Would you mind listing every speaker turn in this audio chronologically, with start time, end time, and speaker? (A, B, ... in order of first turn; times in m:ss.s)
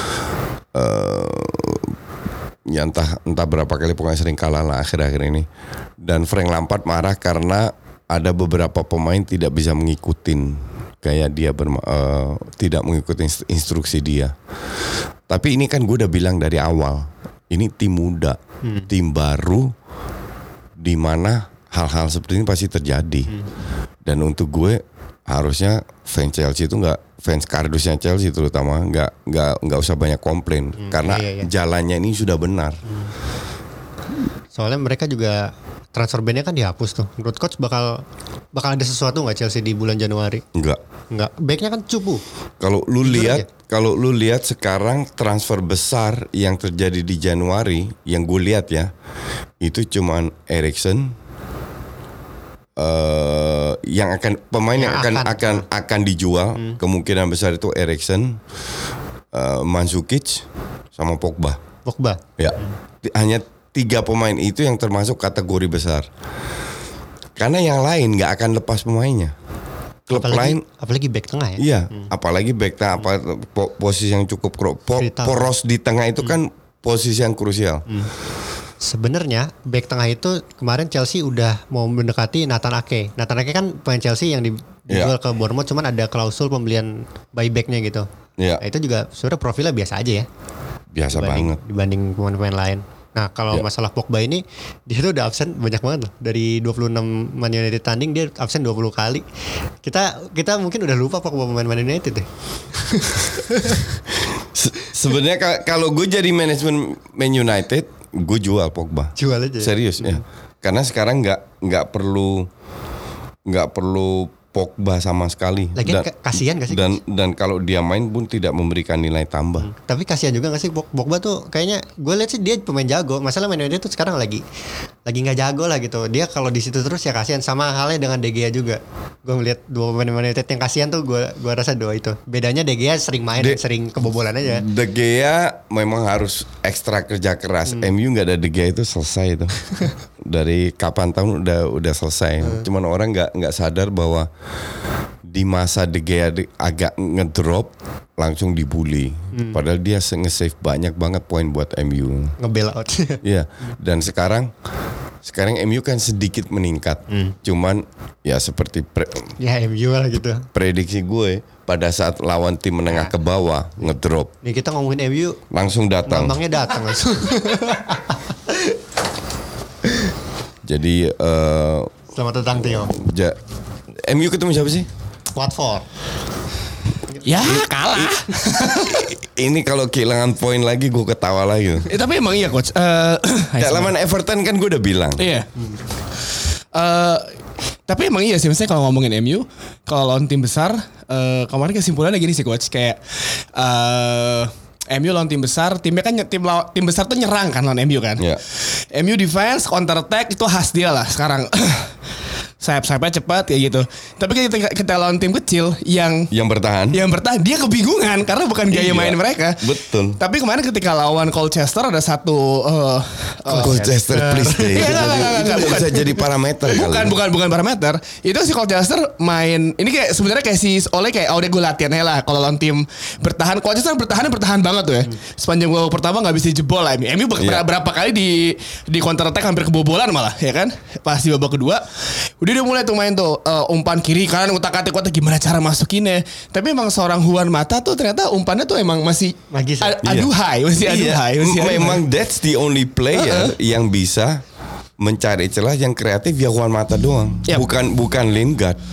0:00.7-0:01.9 A
0:02.7-0:05.5 A
0:06.0-0:14.3 A
0:15.3-0:19.7 A
0:18.6-0:18.9 B
0:20.8-0:23.3 A
0:24.0-0:32.8 A
0:30.8-0:31.5 B
0:34.5-0:40.4 B
0:40.5-0:40.8 A
0:41.1-0:42.2 B
0:42.6-0:48.9 A
0:43.0-0:43.5 B
0:49.6-0:51.2 A
0:52.8-0:58.4 A
0:54.8-0:55.6 B
0:59.3-1:01.6 A
1:01.9-1:02.2 B
1:02.4-1:06.1 A
1:07.4-1:09.3 A
1:10.1-1:10.6 A
1:10.1-1:12.1 B
1:11.6-1:17.8 A
1:15.0-1:15.5 B
1:18.8-1:28.1 B
1:28.6-1:30.3 B
1:30.9-1:31.6 A
1:31.1-1:39.2 B
1:39.8-1:44.0 B
1:44.2-1:52.5 A
1:49.2-1:50.2 B
1:53.5-1:56.1 A
1:55.8-1:56.9 B
1:56.7-1:59.7 A
1:59.6-2:04.4 B
2:05.1-2:14.7 B
2:14.4-2:24.3 A
2:25.3-2:32.4 A
2:32.4-2:33.2 B
2:33.2-2:34.5 A
2:35.2-2:39.3 A
2:37.1-2:37.4 B
2:39.4-2:40.5 B
2:40.5-2:44.3 A
2:42.9-2:43.1 B
2:44.4-2:45.4 B
2:45.5-2:46.4 A
2:46.1-2:48.7 B
2:50.6-2:52.0 A
2:52.1-2:53.0 B
2:52.9-2:53.4 A
2:54.0-2:54.9 A
2:55.4-2:55.9 B
2:57.2-2:59.1 C
2:57.5-2:58.2 A
2:58.7-3:01.9 A
3:01.9-3:03.9 C
3:03.6-3:05.3 A
3:05.2-3:05.5 C
3:06.7-3:07.4 C
3:07.9-3:21.9 C
3:22.6-3:26.3 C
3:26.3-3:27.0 A
3:26.9-3:33.8 C
3:28.7-3:30.2 A
3:33.5-3:35.5 B
3:33.5-3:37.2 A
3:34.7-3:51.8 C
3:47.4-3:47.6 A
3:52.4-4:02.0 C
3:59.5-4:00.0 B
4:00.0-4:04.4 A
4:03.1-4:03.6 C
4:05.0-4:08.8 A